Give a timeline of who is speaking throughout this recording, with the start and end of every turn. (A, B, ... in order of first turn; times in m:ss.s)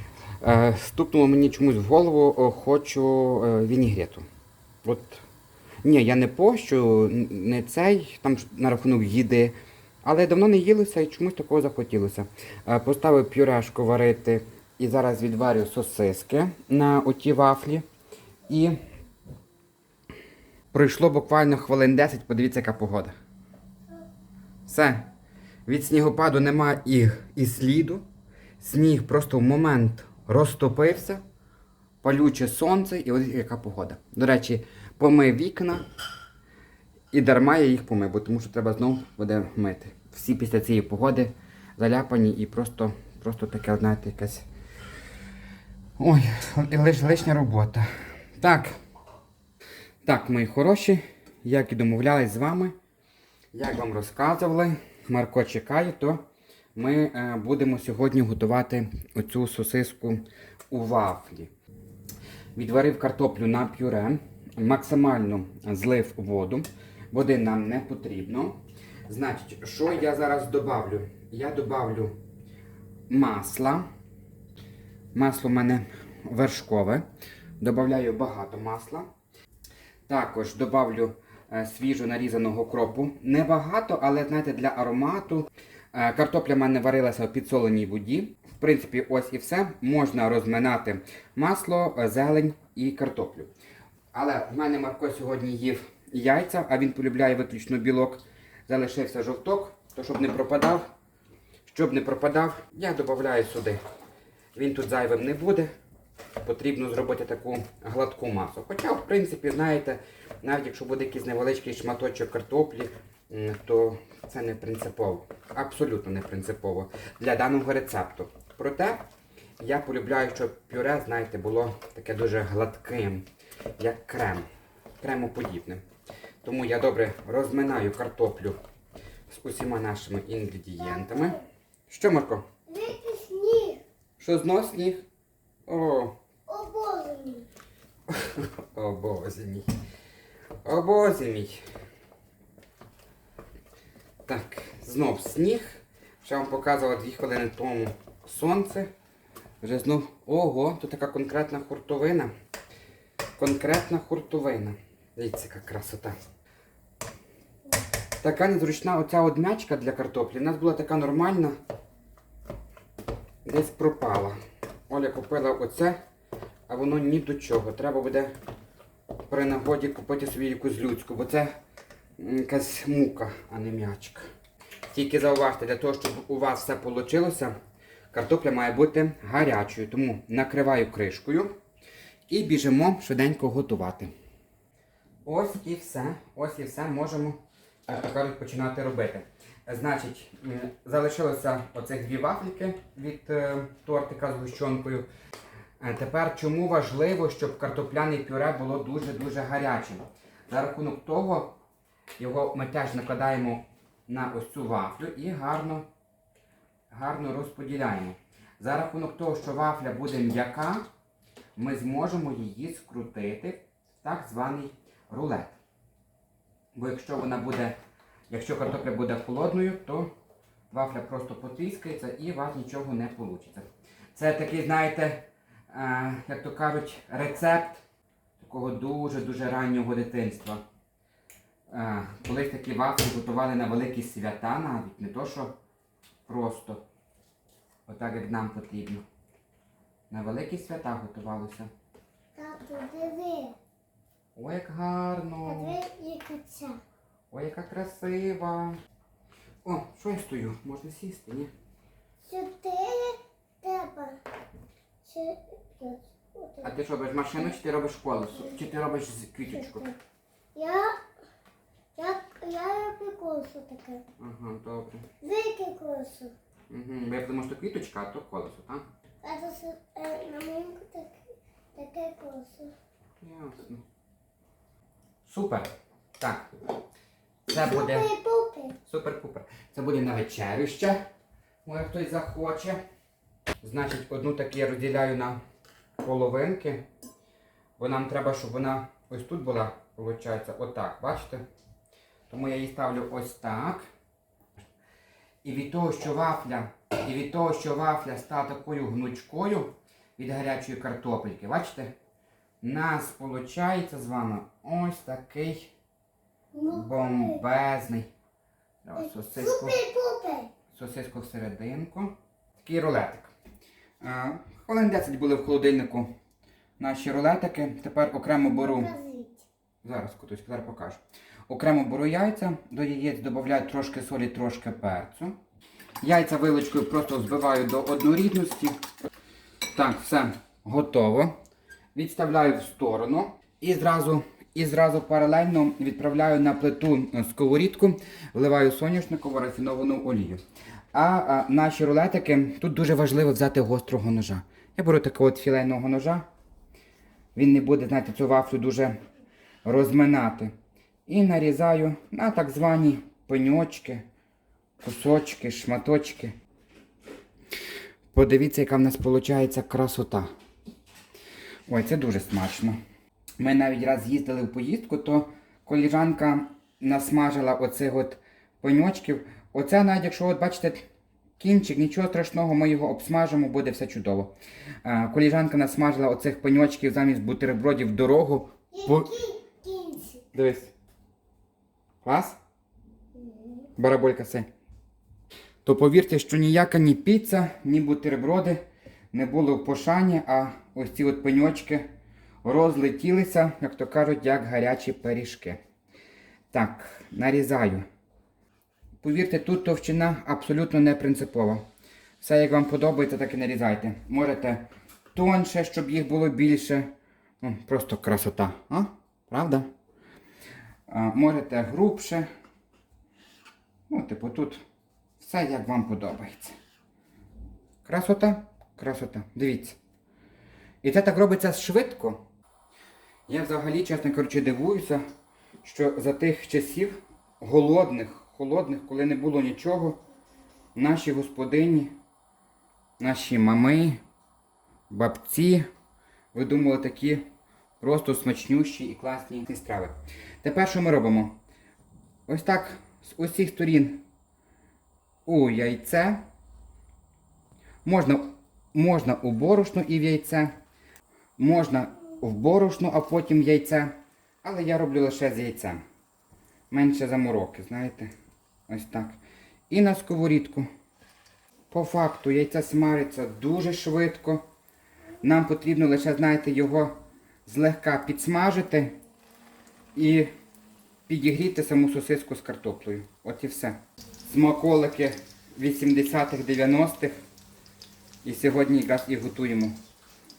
0:00.4-0:04.2 A
0:04.8-0:05.2 A
0:05.8-0:17.8 A
0:18.5-0:18.8 A
0:20.7-0:23.1 A
0:24.6-0:25.1 A
0:25.6-0:28.0 A
0:28.6-0:31.2 A
0:32.0-0:35.8 A
0:37.1-0:44.4 A
0:46.0-0:47.9 A
0:48.4-0:48.8 A
0:50.0-0:52.7 A
0:53.5-0:56.2 A
0:56.7-1:01.5 A
1:02.5-1:12.2 A
1:13.1-1:13.8 A
1:15.1-1:17.0 A
1:17.6-1:19.1 A
1:20.1-1:33.5 A
1:34.1-1:40.9 A
1:41.6-1:43.8 A
1:44.5-1:45.7 A
1:46.4-1:59.0 A
1:59.6-2:03.2 A
2:03.8-2:04.4 A
2:05.0-2:05.8 A
2:06.4-2:08.6 A
2:09.3-2:12.4 A
2:10.8-2:11.4 B
2:12.7-2:13.8 B
2:14.2-2:15.0 A
2:15.7-2:16.2 A
2:16.5-2:17.5 B
2:18.1-2:19.7 A
2:20.6-2:21.6 A
2:24.2-2:28.9 A
2:29.6-2:32.3 A
2:33.4-2:36.2 A
2:38.2-2:41.6 A
2:43.4-2:44.4 A
2:44.9-2:46.0 A
2:46.7-2:48.3 A
2:49.3-2:51.5 A
2:52.2-2:54.3 A
2:54.9-2:57.5 A
2:58.1-3:01.5 A
3:02.3-3:04.1 A
3:05.2-3:15.1 A
3:15.8-3:21.6 A
3:22.2-3:25.9 A
3:26.9-3:30.8 A
3:31.6-3:35.6 A
3:36.7-3:37.8 A
3:38.3-3:40.1 A
3:40.7-3:47.8 A
3:48.4-3:50.6 A
3:51.7-3:55.5 A
3:56.3-3:56.8 A
3:57.9-3:59.0 A
4:00.1-4:01.7 A
4:02.3-4:03.6 B
4:04.3-4:05.7 A
4:05.4-4:06.8 B
4:07.3-4:08.8 A
4:09.6-4:11.5 A
4:12.2-4:14.2 B
4:15.0-4:16.7 B
4:16.6-4:19.9 A
4:19.5-4:20.0 B
4:20.5-4:21.0 B
4:21.9-4:24.0 B
4:24.2-4:25.1 A
4:25.2-4:26.3 B
4:26.7-4:28.9 A
4:29.2-4:31.2 B
4:31.7-4:32.7 B
4:33.2-4:33.8 A
4:35.2-4:36.5 A
4:37.5-4:38.0 A
4:37.5-4:38.8 B
4:38.8-4:41.0 A
4:41.6-4:42.8 A
4:43.6-4:45.4 A
4:46.0-4:46.8 A
4:47.8-4:51.4 A
4:52.3-4:53.8 A
4:55.4-5:01.9 A
5:02.6-5:05.7 A
5:06.5-5:07.4 B
5:06.7-5:08.1 A
5:08.8-5:09.8 A
5:09.0-5:10.5 B
5:10.7-5:13.3 A
5:14.0-5:16.1 A
5:16.8-5:18.9 A
5:18.6-5:19.5 B
5:19.8-5:25.4 A
5:26.0-5:28.7 A
5:29.7-5:31.3 A
5:31.9-5:40.4 A
5:40.9-5:46.2 A
5:47.3-5:49.0 A
5:49.6-5:50.5 A
5:51.1-5:54.0 A
5:54.8-5:56.3 A
5:58.1-6:00.3 A
6:01.7-6:02.8 A
6:03.4-6:10.8 A
6:11.4-6:19.1 A
6:18.7-6:20.2 B
6:20.3-6:20.7 A
6:22.0-6:22.4 A
6:23.2-6:23.6 B
6:23.8-6:24.5 A
6:25.6-6:31.9 A
6:32.4-6:35.6 A
6:36.5-6:37.8 A
6:39.0-6:41.6 A
6:42.2-6:49.7 A
6:50.9-6:52.3 A
6:53.9-6:54.6 A
6:55.2-6:56.6 A
6:57.8-6:59.8 A
7:00.8-7:02.2 A
7:03.3-7:05.0 A
7:05.6-7:10.0 A
7:10.7-7:11.9 A
7:13.0-7:14.0 A
7:14.9-7:15.6 A
7:16.3-7:17.2 A
7:17.8-7:21.4 A
7:22.3-7:24.0 A
7:25.2-7:26.2 A
7:27.8-7:30.5 A
7:31.4-7:35.8 A
7:36.7-7:38.1 A
7:38.7-7:39.2 A
7:39.7-7:40.7 A
7:41.7-7:44.4 A
7:45.2-7:48.9 A
7:49.9-7:50.3 A
7:51.1-7:57.1 A
7:58.2-7:59.8 A